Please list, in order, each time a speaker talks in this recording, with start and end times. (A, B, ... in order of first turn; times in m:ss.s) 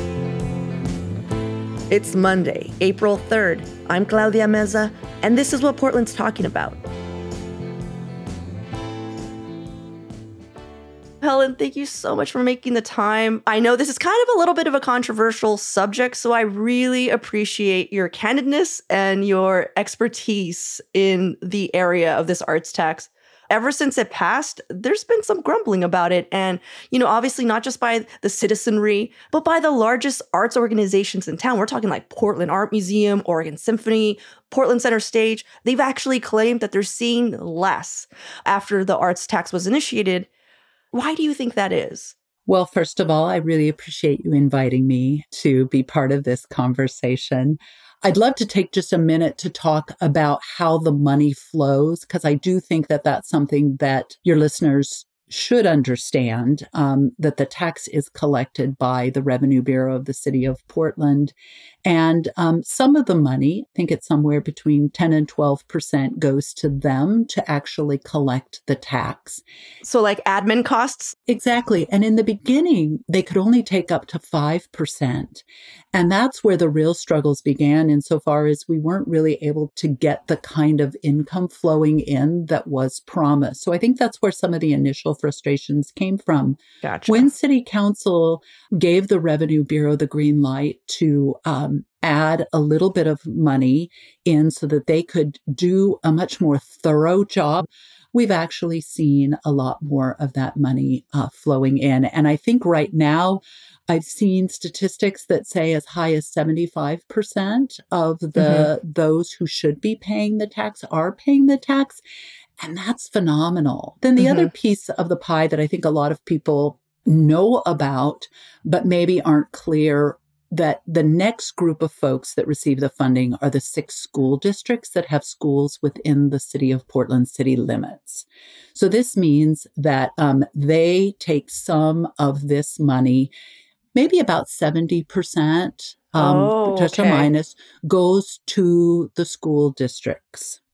0:01.9-0:06.8 A
0:11.2-0:40.3 A
0:40.9-0:42.2 A
0:42.5-1:01.3 B
1:01.8-1:09.4 B
1:09.8-1:11.2 A
1:11.3-1:52.0 B
1:26.8-1:27.3 A
1:48.4-1:48.7 A
1:52.6-2:13.3 B
1:54.2-1:54.5 A
2:13.9-2:20.6 B
2:16.2-2:17.3 A